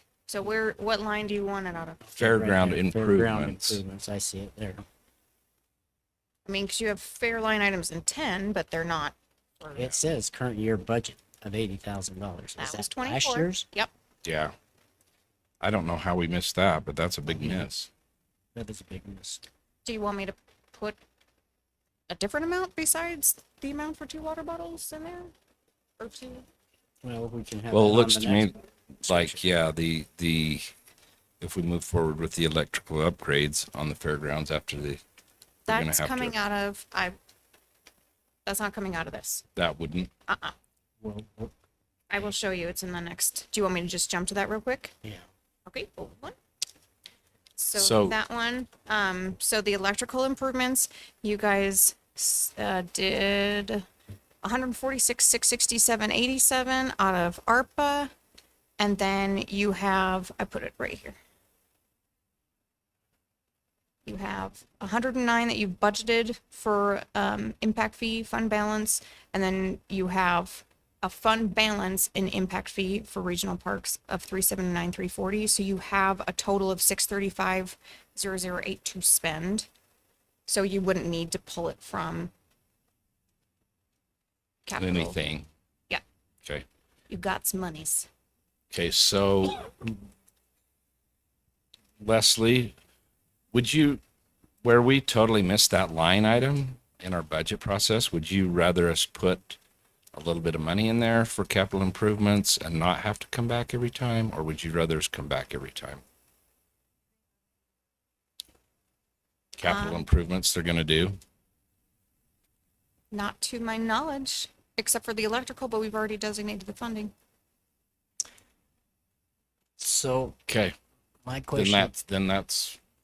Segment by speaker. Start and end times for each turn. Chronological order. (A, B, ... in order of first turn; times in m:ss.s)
0:00.3-0:02.0 A
0:02.0-0:04.8 B
0:02.2-0:03.8 C
0:06.4-0:10.0 A
0:09.8-0:13.7 B
0:12.6-0:13.9 A
0:14.2-0:14.5 C
0:15.6-0:17.9 C
0:17.2-0:17.7 B
0:18.5-0:19.4 B
0:19.8-0:21.0 A
0:22.1-0:25.3 A
0:26.0-0:26.5 A
0:27.0-0:29.5 B
0:27.7-0:30.7 C
0:31.4-0:35.0 C
0:35.7-0:37.2 A
0:35.7-0:36.3 C
0:38.4-0:39.4 A
0:39.6-0:40.1 C
0:40.1-0:40.5 A
0:41.0-0:41.5 B
0:42.1-0:44.9 A
0:45.7-0:46.4 A
0:47.6-0:53.8 A
0:47.8-0:48.2 C
0:54.4-0:58.1 A
0:58.8-1:01.2 A
1:04.0-1:19.7 A
1:20.5-1:22.3 A
1:24.6-1:25.2 A
1:24.8-1:25.5 C
1:27.1-1:28.1 A
1:28.7-1:29.7 C
1:32.0-1:32.7 C
1:33.5-1:34.0 C
1:34.6-1:39.6 C
1:40.1-1:46.0 C
1:49.6-1:51.2 C
1:49.6-1:50.0 A
1:53.1-1:57.1 A
1:59.8-2:00.4 B
2:00.5-2:00.7 C
2:01.2-2:02.0 B
2:01.5-2:02.8 C